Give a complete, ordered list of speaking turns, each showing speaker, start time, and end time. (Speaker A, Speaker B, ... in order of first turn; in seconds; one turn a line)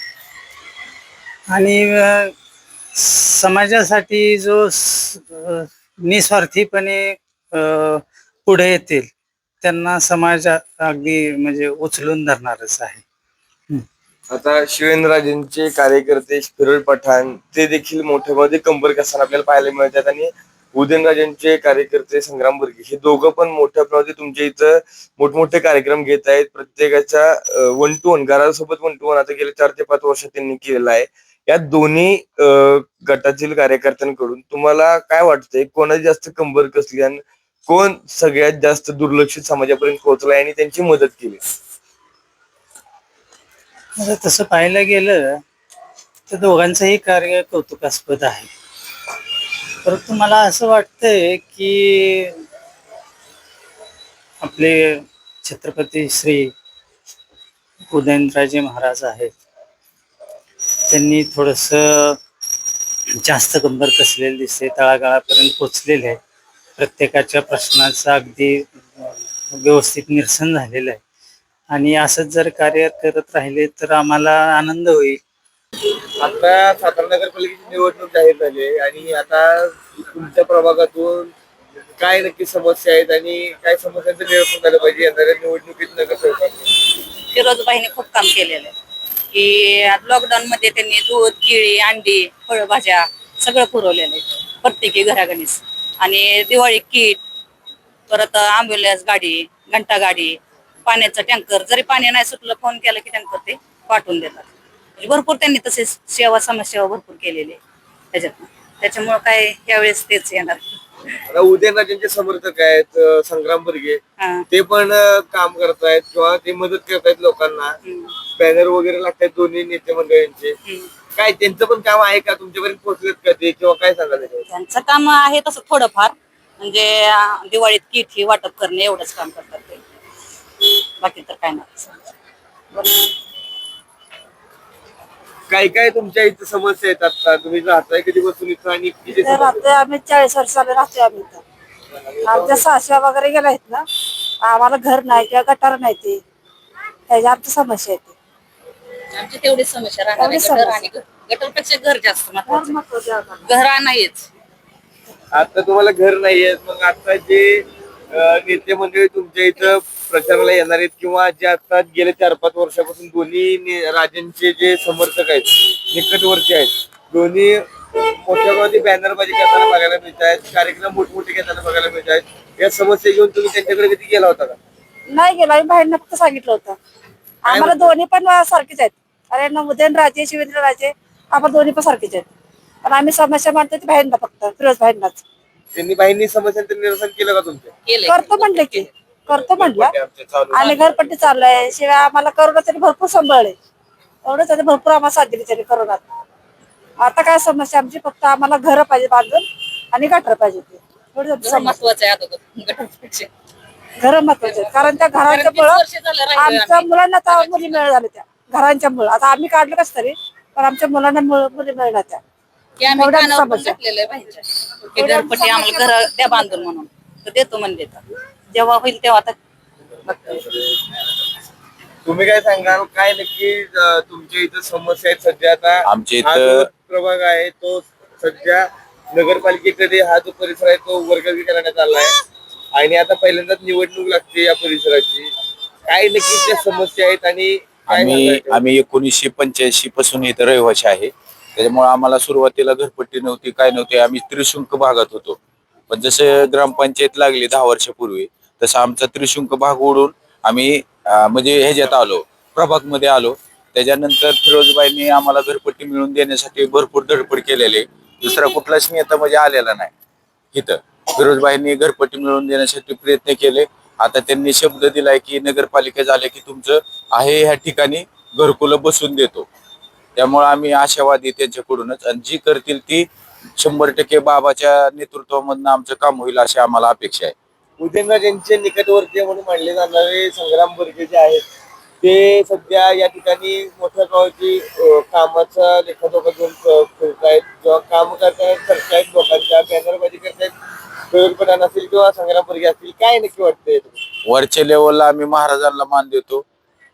Speaker A: 1.5-2.3
Speaker A: 3.0-9.1
Speaker A: 9.6-13.0
Speaker B: 14.3-41.4
Speaker A: 44.0-45.4
Speaker A: 46.3-48.5
Speaker A: 49.8-52.4
Speaker A: 54.4-56.5
Speaker A: 57.9-59.4
Speaker A: 60.9-62.2
Speaker A: 63.2-66.2
Speaker A: 66.8-71.0
Speaker A: 71.7-75.2
Speaker B: 76.2-81.3
Speaker B: 82.0-86.7
Speaker C: 87.3-88.7
Speaker C: 89.3-97.2
Speaker C: 98.1-107.6
Speaker C: 108.1-110.6
Speaker B: 111.3-117.8
Speaker C: 114.2-114.5
Speaker C: 117.8-118.1
Speaker B: 118.4-120.6
Speaker C: 120.7-120.9
Speaker B: 121.2-124.5
Speaker C: 124.5-129.8
Speaker C: 131.0-132.1
Speaker B: 135.5-139.6
Speaker D: 139.2-141.4
Speaker B: 142.2-142.6
Speaker D: 142.2-143.9
Speaker D: 144.4-146.2
Speaker D: 147.1-148.1
Speaker C: 149.1-152.8
Speaker D: 150.2-150.8
Speaker D: 152.5-153.4
Speaker C: 153.4-154.3
Speaker B: 155.3-174.6
Speaker D: 175.1-176.8
Speaker B: 177.4-177.9
Speaker D: 177.4-182.3
Speaker D: 182.8-185.2
Speaker B: 185.7-187.7
Speaker C: 187.9-188.9
Speaker D: 188.1-189.9
Speaker C: 190.5-190.9
Speaker D: 190.5-193.6
Speaker D: 194.2-196.0
Speaker D: 197.0-201.8
Speaker C: 201.4-203.3
Speaker D: 204.0-205.8
Speaker C: 204.4-207.8
Speaker D: 206.4-212.2
Speaker C: 212.8-219.3
Speaker D: 212.9-213.8
Speaker D: 215.0-215.9
Speaker C: 220.1-220.5
Speaker B: 222.1-232.2
Speaker E: 225.8-226.7
Speaker B: 232.8-235.3
Speaker B: 235.9-238.6
Speaker E: 237.9-245.4
Speaker E: 245.9-259.9
Speaker E: 260.5-269.5
Speaker E: 270.2-277.3
Speaker B: 277.8-281.4
Speaker B: 282.0-290.5
Speaker B: 291.1-294.0
Speaker E: 294.2-296.4